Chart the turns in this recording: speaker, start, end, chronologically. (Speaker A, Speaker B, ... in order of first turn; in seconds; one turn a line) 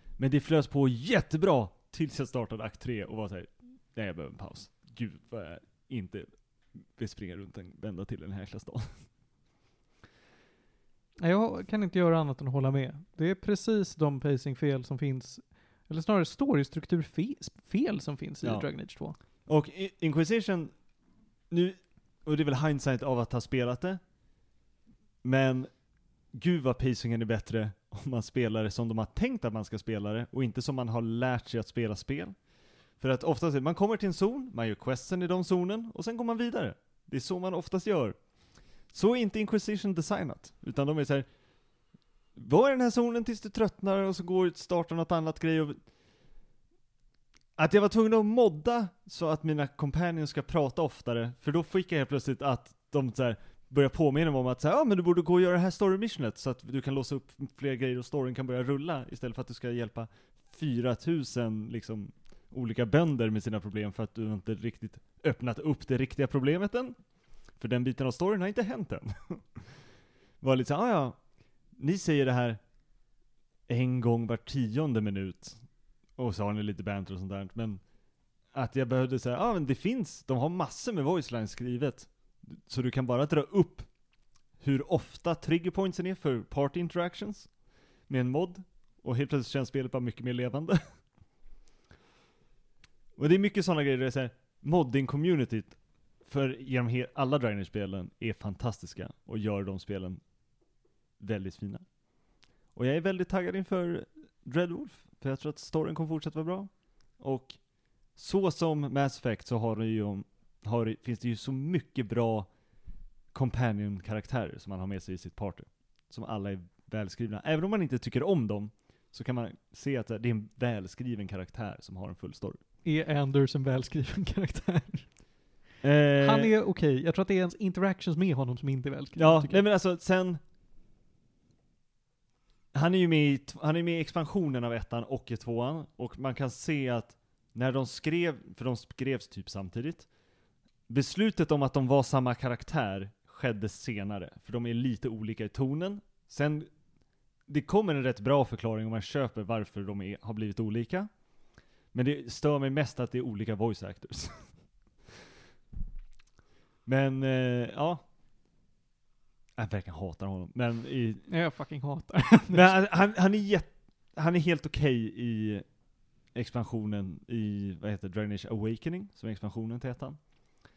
Speaker A: 0.2-6.3
Speaker A: 6.8-8.9
Speaker B: 11.2-19.2
Speaker A: 18.4-18.8
Speaker A: 19.5-20.7
Speaker A: 21.5-24.0
Speaker A: 25.2-25.7
Speaker A: 26.3-32.4
Speaker A: 33.0-38.2
Speaker A: 38.9-41.3
Speaker A: 42.4-45.8
Speaker A: 47.6-67.0
Speaker A: 67.6-69.7
Speaker A: 70.4-71.2
Speaker A: 71.8-72.6
Speaker A: 73.7-75.6
Speaker A: 76.2-77.8
Speaker A: 78.5-83.9
Speaker A: 84.6-87.5
Speaker A: 88.1-90.8
Speaker A: 93.2-100.2
Speaker A: 101.2-101.8
Speaker A: 102.7-107.6
Speaker A: 108.1-112.5
Speaker A: 113.3-122.6
Speaker B: 122.8-125.1
Speaker A: 125.8-126.5
Speaker B: 126.2-129.6
Speaker A: 129.2-130.4
Speaker A: 132.7-140.1
Speaker A: 140.9-146.7
Speaker A: 147.5-151.1
Speaker A: 151.9-154.5
Speaker A: 156.8-158.0
Speaker A: 159.6-161.3
Speaker B: 161.3-162.8
Speaker A: 162.5-165.7
Speaker A: 166.3-170.2